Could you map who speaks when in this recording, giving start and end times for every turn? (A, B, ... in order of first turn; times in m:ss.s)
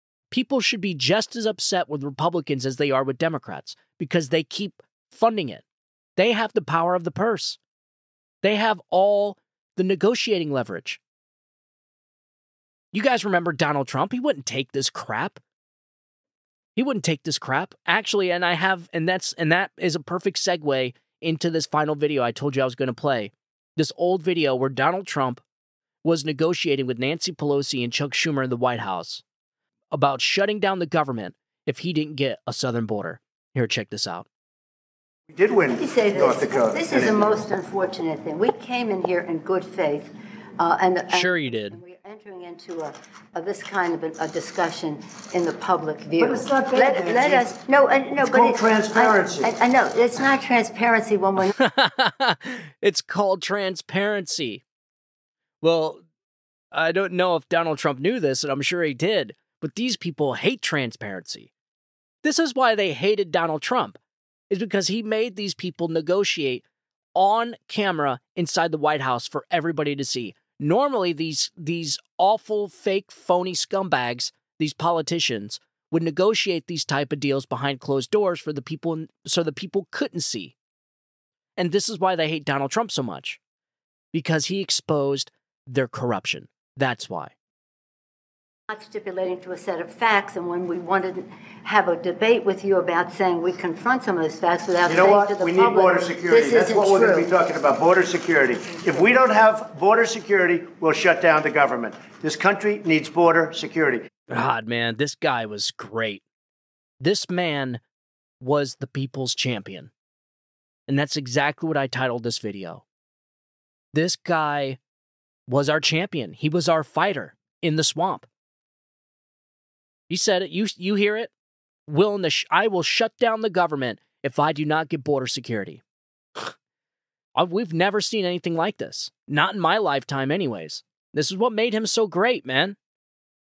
0:00.3-0:05.6 A
0:06.2-0:07.6 A
0:08.4-0:11.0 A
0:12.9-0:15.4 A
0:16.8-0:25.4 A
0:26.0-0:29.2 A
0:29.9-0:34.3 A
0:35.3-0:37.4 B
0:35.8-0:51.5 C
0:41.1-0:41.8 A
0:46.2-0:47.5 B
0:48.2-0:49.5 B
0:51.5-0:54.6 A
0:55.6-0:56.0 A
0:56.7-1:01.5 A
1:02.2-1:04.0 A
1:04.5-1:06.6 A
1:07.1-1:20.5 A
1:21.6-1:23.4 A
1:24.1-1:27.3 A
1:28.7-1:37.3 C
1:34.8-1:44.0 B
1:44.3-1:46.2 A
1:47.0-1:47.8 A
1:48.4-1:49.9 A
1:50.9-1:52.8 A
1:53.9-1:54.8 A
1:55.5-1:58.3 A
2:00.1-2:01.3 A
2:01.9-2:05.8 A
2:07.3-2:12.8 A